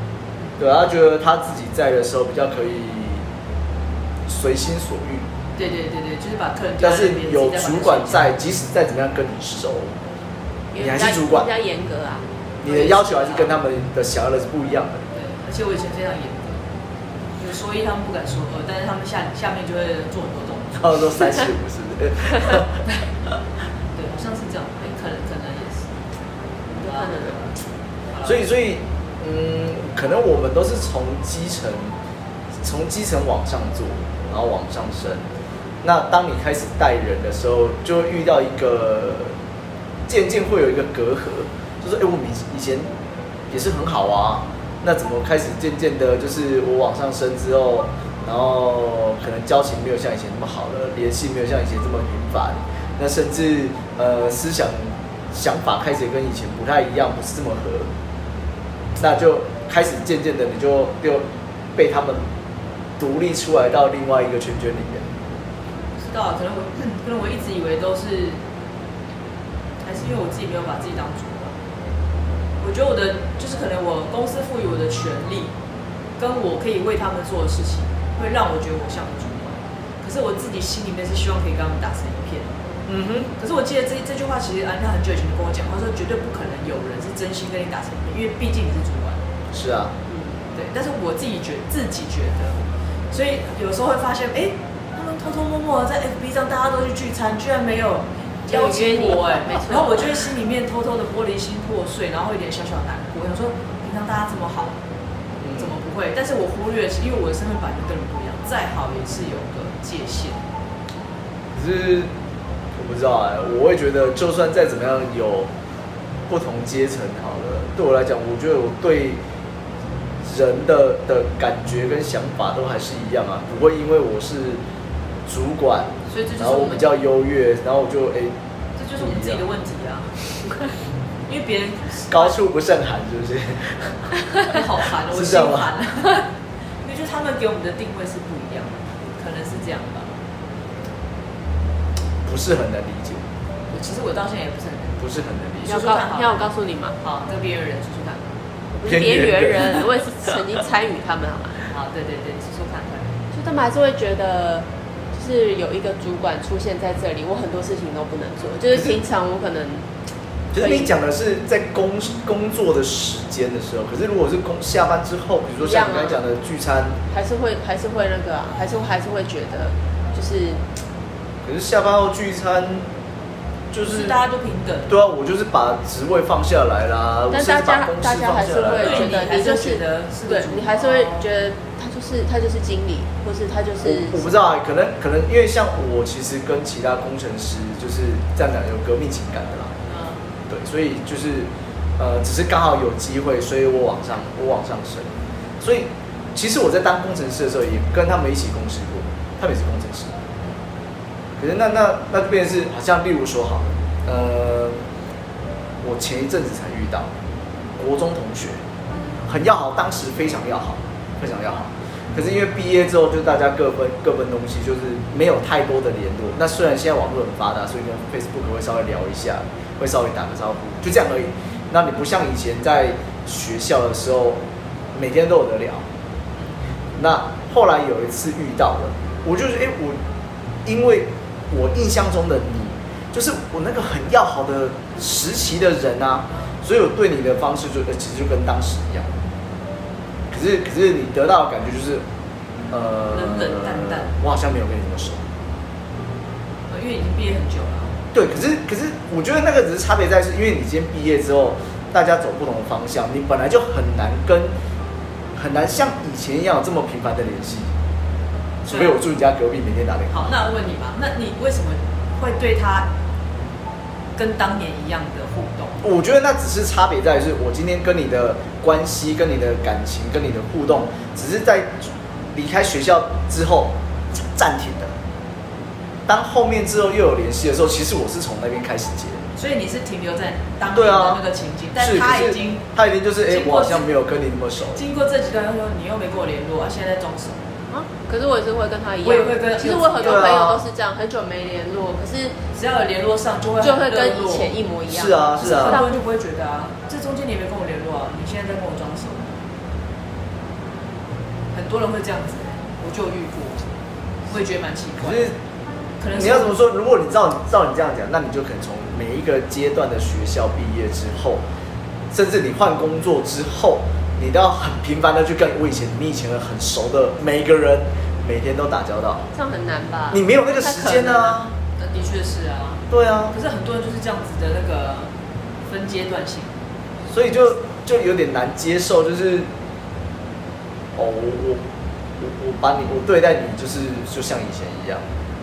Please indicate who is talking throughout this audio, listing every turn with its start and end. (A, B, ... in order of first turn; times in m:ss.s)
0:00.6-0:03.2 A
0:04.3-0:05.2 A
0:05.6-0:08.3 B
0:06.8-0:09.9 A
0:10.7-0:13.5 C
0:10.8-0:11.5 A
0:12.6-0:15.0 A
0:15.1-0:16.7 B
0:17.4-0:21.0 B
0:20.8-0:23.4 A
0:24.0-0:25.9 B
0:26.8-0:27.4 C
0:26.8-0:27.6 B
0:28.1-0:28.4 B
0:28.2-0:32.0 A
0:32.6-0:35.3 A
0:35.8-0:39.4 A
0:40.1-0:42.9 A
0:43.5-0:57.9 A
0:59.0-1:02.2 A
1:03.0-1:05.1 A
1:06.0-1:08.4 B
1:09.8-1:11.5 B
1:12.6-1:15.5 B
1:16.2-1:22.5 B
1:22.9-1:23.3 A
1:23.4-1:29.2 B
1:29.5-1:30.0 A
1:30.1-1:30.4 C
1:30.5-1:32.6 B
1:33.1-1:44.8 B
1:38.5-1:40.3 C
1:45.4-1:45.7 A
1:45.5-1:50.4 B
1:51.6-1:52.1 A
1:52.8-1:55.5 A
1:56.3-1:59.2 A
2:00.2-2:04.6 A
2:05.3-2:08.3 A
2:06.1-2:06.9 B
2:08.8-2:10.2 B
2:09.0-2:09.4 A
2:11.3-2:12.4 B
2:12.1-2:14.1 A
2:14.4-2:16.3 B
2:15.1-2:15.7 A
2:16.8-2:20.1 B
2:22.2-2:23.2 A
2:23.7-2:28.4 B
2:25.0-2:25.8 A
2:25.7-2:27.0 C
2:28.7-2:31.6 C
2:28.8-2:29.9 A
2:31.7-2:33.2 B
2:33.3-2:39.9 C
2:38.7-2:39.0 A
2:40.5-2:47.0 A
2:40.5-2:40.9 C
2:45.6-2:46.2 C
2:47.1-2:50.6 C
2:51.4-2:52.9 A
2:53.7-2:54.2 A
2:53.8-2:55.0 B
2:54.9-2:59.1 A
2:57.3-3:04.3 C
2:58.8-3:01.3 B
3:03.8-3:09.7 A
3:09.9-3:10.2 B
3:10.5-3:20.1 A
3:21.4-3:24.8 A
3:25.8-3:27.1 A
3:27.8-3:28.6 A
3:29.2-3:44.4 A
3:44.9-3:45.8 A
3:47.0-3:50.0 A
3:50.6-3:59.1 A
4:00.3-4:02.0 A
4:02.7-4:05.3 A
4:03.1-4:04.1 B
4:06.7-4:08.0 B
4:08.1-4:14.5 A
4:15.4-4:17.7 A
4:18.6-4:20.3 A
4:18.7-4:19.0 B
4:20.1-4:22.9 B
4:24.2-4:25.8 B
4:25.8-4:34.9 A
4:36.1-4:39.2 A
4:39.4-4:42.6 B
4:40.7-4:41.2 A
4:41.8-4:44.8 A
4:43.3-4:43.9 B
4:44.7-4:47.5 B
4:47.7-4:52.4 C
4:49.0-4:50.3 B
4:50.0-4:50.6 A
4:52.5-4:54.6 B
4:53.6-4:56.0 C
4:54.9-4:55.8 A
4:55.4-4:59.3 B
5:01.5-5:03.6 B
5:04.3-5:05.3 B
5:05.0-5:05.4 A
5:06.0-5:06.6 B
5:06.1-5:11.4 A
5:12.1-5:19.3 A
5:19.3-5:21.0 C
5:20.1-5:21.6 A
5:20.6-5:25.1 B
5:22.9-5:23.3 A
5:25.6-5:26.6 B
5:27.1-5:29.5 A
5:31.0-5:31.6 A
5:32.2-5:35.0 A